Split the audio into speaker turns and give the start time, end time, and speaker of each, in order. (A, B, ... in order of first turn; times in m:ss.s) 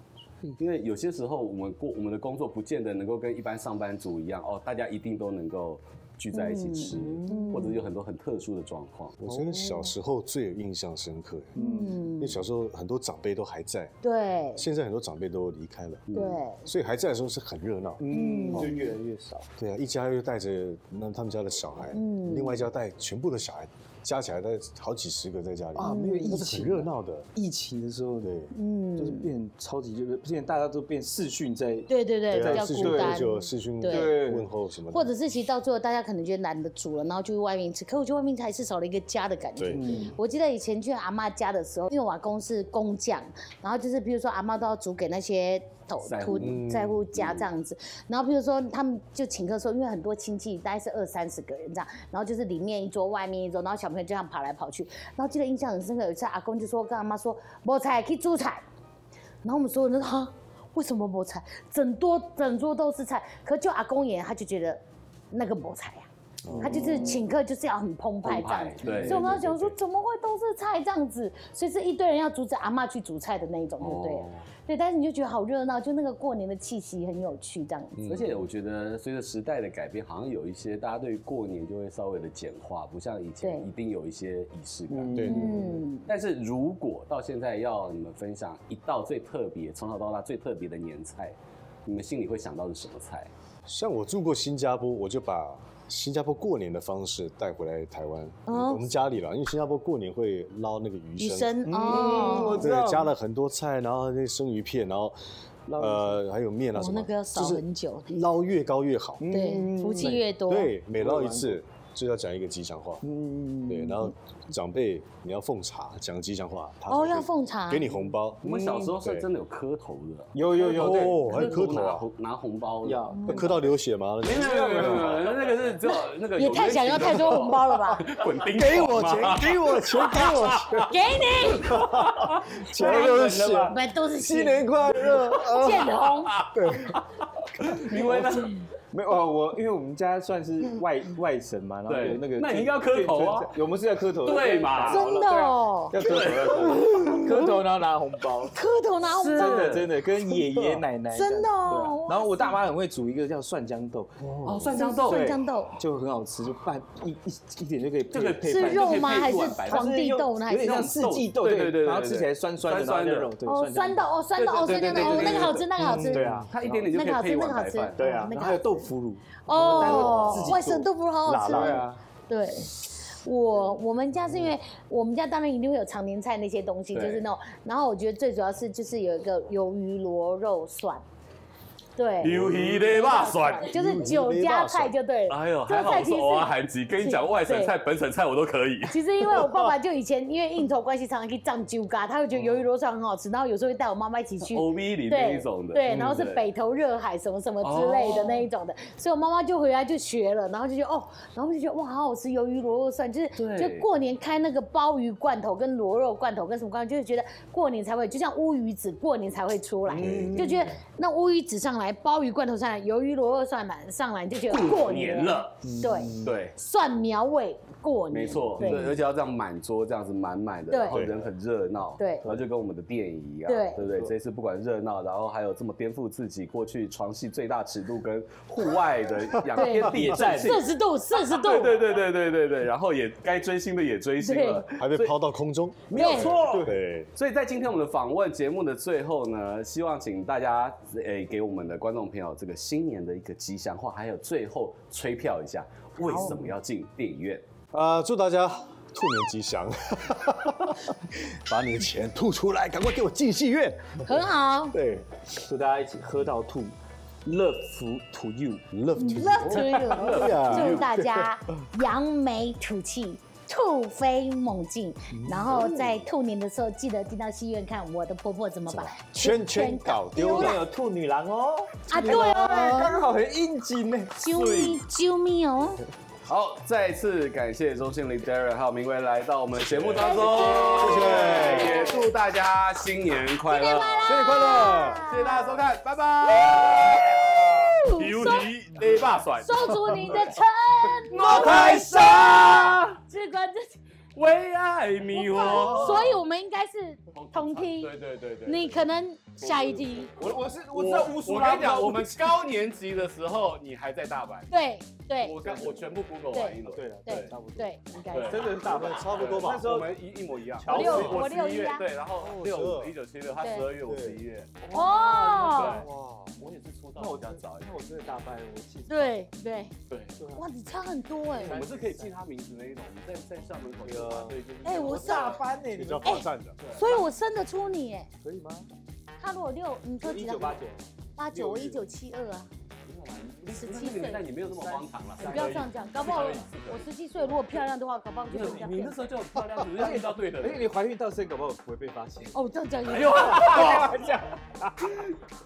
0:00.6-0:09.2 A
0:06.3-0:07.8 B
0:07.0-0:07.5 C
0:09.2-0:11.6 D
0:09.3-0:09.9 C
0:11.6-0:12.0 C
0:11.6-0:12.4 B
0:12.2-0:13.9 D
0:14.0-0:14.6 B
0:14.6-0:18.6 D
0:16.1-0:16.4 A
0:16.1-0:16.7 B
0:18.0-0:19.5 C
0:18.1-0:18.8 B
0:19.6-0:27.3 D
0:21.9-0:22.6 B
0:25.8-0:28.3 C
0:25.8-0:26.4 B
0:28.2-0:28.5 D
0:28.5-0:29.3 B
0:29.0-0:34.5 C
0:31.9-0:34.2 B
0:32.3-0:35.1 D
0:34.9-0:58.6 B
0:39.6-0:39.8 D
0:39.7-0:40.2 C
0:46.0-0:46.6 A
0:46.3-0:47.0 D
0:59.4-1:04.8 B
1:05.3-1:18.0 B
1:06.4-1:06.8 D
1:06.6-1:07.2 C
1:08.2-1:09.7 A
1:08.8-1:09.2 C
1:13.8-1:14.4 A
1:17.9-1:18.4 D
1:18.1-1:25.3 A
1:23.4-1:23.7 B
1:24.9-1:25.8 C
1:25.2-1:25.5 D
1:25.2-1:26.1 B
1:26.0-1:33.3 A
1:33.6-1:45.2 D
1:38.5-1:38.9 B
1:41.2-1:42.7 B
1:41.8-1:43.1 C
1:45.7-1:46.2 C
1:45.8-1:49.4 D
1:46.7-1:48.2 B
1:49.2-1:50.3 C
1:49.3-1:50.7 B
1:50.0-1:53.0 D
1:51.0-1:51.6 C
1:53.0-1:54.1 C
1:53.7-1:58.5 D
1:56.9-1:58.0 B
1:58.4-2:03.0 A
1:58.5-1:58.9 C
2:00.3-2:01.7 C
2:00.6-2:02.0 D
2:02.8-2:05.6 C
2:03.1-2:03.5 B
2:03.3-2:05.2 D
2:04.2-2:10.9 A
2:05.9-2:08.0 B
2:08.5-2:10.9 D
2:09.0-2:09.4 C
2:10.9-2:11.8 B
2:11.5-2:13.8 D
2:11.7-2:12.4 A
2:12.6-2:15.1 C
2:12.8-2:16.4 B
2:14.3-2:17.0 D
2:15.1-2:15.5 A
2:16.2-2:18.6 A
2:18.9-2:28.6 C
2:21.9-2:23.6 A
2:24.2-2:25.1 A
2:24.8-2:26.0 B
2:26.0-2:27.4 A
2:28.5-2:29.7 B
2:29.1-2:29.9 A
2:29.2-2:34.3 C
2:31.1-2:32.6 B
2:34.2-2:34.7 D
2:34.4-2:35.3 A
2:34.7-2:35.8 B
2:35.0-2:46.9 C
2:38.1-2:39.9 A
2:38.4-2:41.2 B
2:40.5-2:43.3 A
2:43.4-2:46.2 B
2:44.4-2:45.7 A
2:45.8-2:46.5 D
2:46.5-2:48.2 A
2:46.9-2:48.7 B
2:48.0-2:50.9 C
2:49.4-3:01.0 B
2:49.6-2:50.6 D
2:51.2-2:51.8 D
2:51.4-2:52.0 C
2:56.9-2:57.2 A
3:02.0-3:07.7 B
3:02.2-3:03.7 A
3:02.2-3:02.9 D
3:03.7-3:04.9 D
3:05.3-3:09.0 A
3:08.9-3:38.9 B
3:09.2-3:09.7 D
3:14.4-3:16.4 A
3:17.6-3:18.5 A
3:23.4-3:23.8 A
3:29.9-3:30.8 D
3:30.0-3:30.4 C
3:34.5-3:35.6 A
3:35.6-3:36.3 C
3:36.2-3:36.6 A
3:38.1-3:55.2 A
3:38.6-3:39.0 D
3:40.7-3:41.0 B
3:40.9-3:41.2 D
3:42.0-3:42.3 B
3:43.4-3:43.8 B
3:43.8-3:44.1 C
3:49.5-3:51.8 B
3:49.6-3:50.6 C
3:54.2-3:54.6 B
3:54.7-3:57.1 D
3:55.9-4:07.4 A
3:55.9-3:56.3 B
3:56.0-3:56.8 C
4:06.0-4:06.5 B
4:07.7-4:14.1 D
4:14.0-4:14.8 B
4:14.7-4:15.1 D
4:15.4-4:18.7 C
4:18.7-4:21.3 D
4:19.0-4:30.6 B
4:19.6-4:20.9 A
4:25.1-4:25.6 C
4:28.7-4:30.6 D
4:30.1-4:34.2 C
4:31.9-4:33.0 B
4:32.0-4:32.9 D
4:34.2-4:35.8 B
4:34.2-4:34.8 A
4:36.2-4:44.3 A
4:39.7-4:42.0 D
4:40.0-4:42.1 B
4:43.4-4:45.6 B
4:44.0-4:45.0 D
4:44.9-4:50.2 A
4:46.3-4:46.7 B
4:47.4-4:48.5 B
4:49.4-4:53.8 B
4:51.1-4:53.0 A
4:54.1-4:56.2 A
4:55.1-4:57.9 B
4:57.1-4:58.8 A
4:58.4-5:00.1 B
4:59.4-5:02.2 C
5:00.7-5:04.5 A
5:04.5-5:05.4 B
5:05.2-5:07.3 A
5:05.5-5:05.9 C
5:06.3-5:08.7 B
5:06.7-5:09.9 C
5:08.1-5:08.5 A
5:08.6-5:09.8 D
5:09.2-5:14.7 A
5:10.6-5:11.3 C
5:10.7-5:11.8 B
5:12.2-5:12.9 D
5:13.4-5:13.7 B
5:13.8-5:14.2 D
5:14.7-5:15.7 C
5:14.7-5:15.8 B
5:15.0-5:16.4 D
5:15.5-5:17.8 A
5:17.0-5:19.3 C
5:18.9-5:19.7 B
5:19.9-5:20.2 A
5:20.2-5:20.4 C
5:20.4-5:21.6 B
5:21.3-5:22.1 C
5:21.3-5:25.4 A
5:23.8-5:24.4 D
5:24.6-5:25.4 B
5:24.8-5:26.2 C
5:25.7-5:26.6 D
5:26.0-5:28.1 B
5:26.6-5:27.0 A
5:28.2-5:28.7 C
5:29.2-5:30.6 B
5:30.0-5:30.9 C
5:31.2-5:32.5 B
5:32.8-5:36.8 A
5:33.4-5:34.2 B
5:34.6-5:35.7 C
5:35.2-5:39.1 B
5:38.3-5:40.6 A
5:38.3-5:38.7 C
5:39.8-5:42.4 C
5:42.3-5:43.9 B
5:42.8-5:44.0 A
5:43.1-5:45.0 C